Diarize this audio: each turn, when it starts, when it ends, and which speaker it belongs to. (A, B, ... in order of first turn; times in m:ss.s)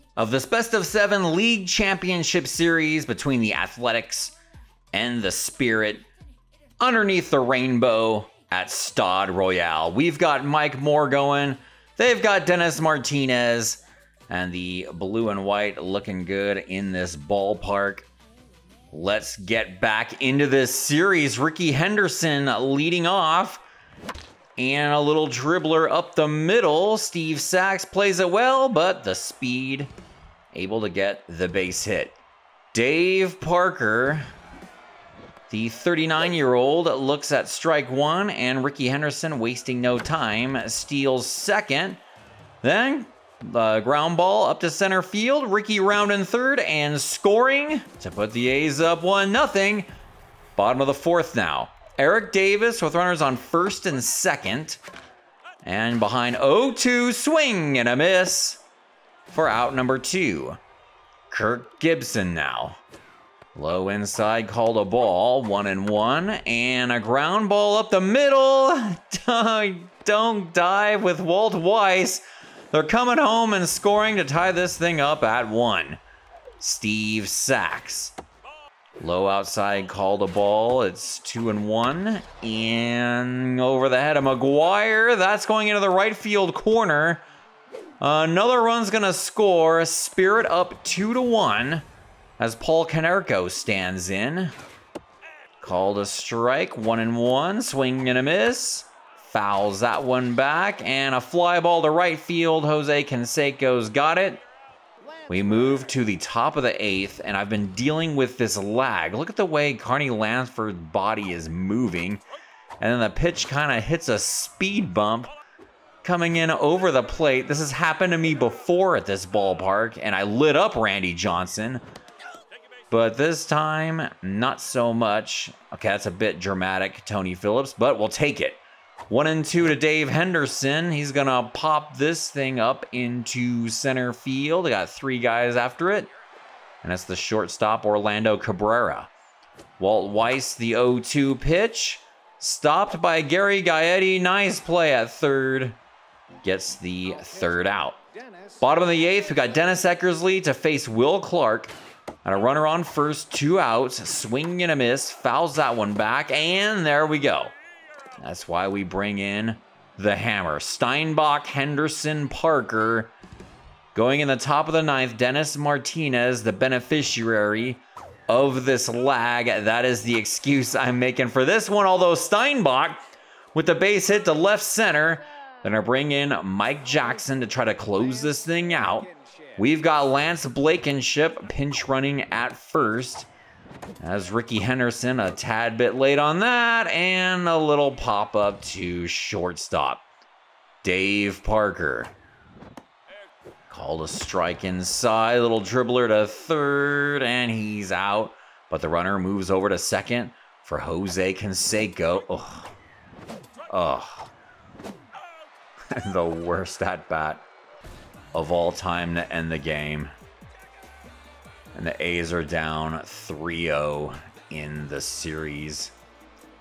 0:00.2-0:04.3 A
0:04.9-0:06.0 A
0:06.8-0:18.1 A
0:18.9-0:23.6 A
0:24.6-0:29.9 A
0:30.5-0:32.2 A
0:32.7-0:34.2 A
0:35.5-0:42.0 A
0:42.6-0:49.9 A
0:50.6-0:54.8 A
0:55.6-0:58.6 A
0:59.3-1:00.6 A
1:01.3-1:02.8 A
1:03.5-1:16.0 A
1:16.6-1:18.1 A
1:19.0-1:27.2 A
1:28.0-1:31.8 A
1:32.4-1:34.5 A
1:35.6-1:44.4 A
1:45.3-1:52.2 A
1:52.8-1:55.3 A
1:56.0-2:01.8 A
2:02.9-2:08.6 A
2:09.1-2:16.1 A
2:16.8-2:19.1 A
2:19.8-2:25.8 A
2:26.4-2:28.0 A
2:28.6-2:31.7 A
2:32.2-2:37.5 A
2:38.2-2:43.1 A
2:43.9-2:53.0 A
2:53.5-3:03.3 A
3:04.0-3:10.0 A
3:10.8-3:12.1 A
3:13.7-3:22.7 A
3:23.7-3:24.3 A
3:25.9-3:27.4 A
3:28.3-3:30.1 A
3:31.7-3:35.9 A